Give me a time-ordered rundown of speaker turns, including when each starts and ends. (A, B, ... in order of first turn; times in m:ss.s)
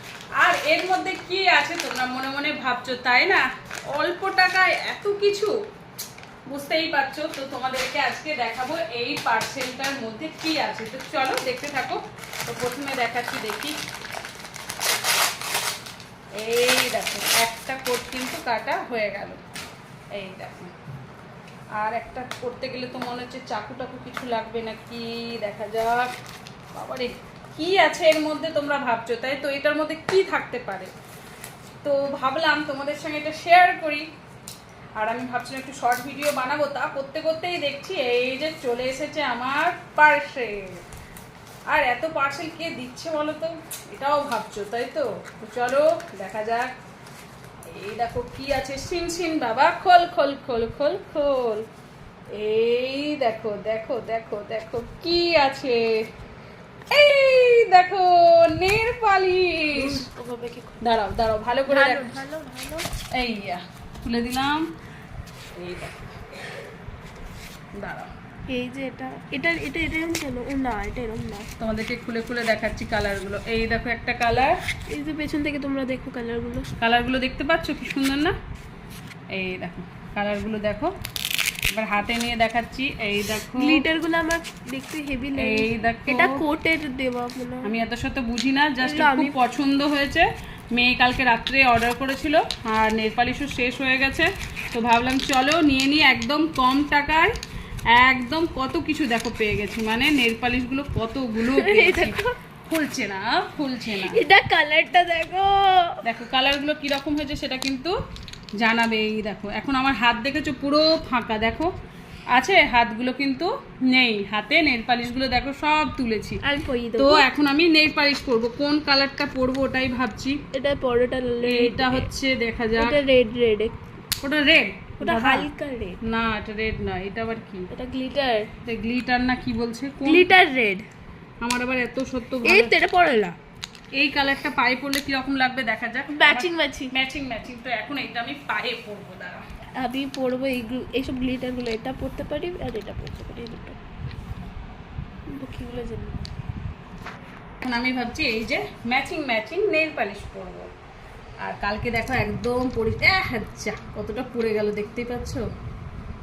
0:00.4-0:05.5 A
0:06.5-0:13.8 A
0:16.3-0:19.4 A
0:20.1-0:20.7 A
0:21.8-0:26.1 A
0:26.7-0:30.9 A
0:31.8-0:34.1 A
0:35.0-0:40.8 A
0:41.7-0:46.7 A
0:47.7-0:51.6 A
0:52.3-0:56.0 A
0:56.9-1:00.0 A
0:59.7-1:00.8 B
1:00.8-1:02.1 A
1:01.7-1:02.9 B
1:03.1-1:04.7 A
1:05.6-1:06.1 A
1:07.7-1:08.1 A
1:08.5-1:11.5 B
1:11.6-1:14.6 A
1:14.9-1:16.7 B
1:16.8-1:18.3 A
1:19.3-1:20.9 A
1:21.7-1:23.8 A
1:23.5-1:27.7 B
1:25.4-1:26.3 A
1:27.6-1:37.3 A
1:28.8-1:29.4 B
1:37.9-1:44.2 A
1:41.4-1:42.3 B
1:44.0-1:46.0 B
1:46.0-1:47.9 A
1:48.6-1:51.7 A
1:52.3-1:56.4 A
1:56.4-1:57.2 B
1:57.0-2:00.4 A
2:00.5-2:02.1 B
2:01.4-2:03.0 A
2:02.8-2:03.8 B
2:04.2-2:05.4 A
2:05.0-2:06.0 B
2:06.0-2:07.7 A
2:07.7-2:08.5 B
2:08.6-2:10.3 A
2:10.0-2:10.8 B
2:11.4-2:12.7 A
2:12.4-2:13.4 B
2:14.0-2:19.4 A
2:16.1-2:16.9 B
2:19.8-2:23.8 B
2:25.3-2:26.3 B
2:27.6-2:30.7 A
2:31.4-2:35.4 A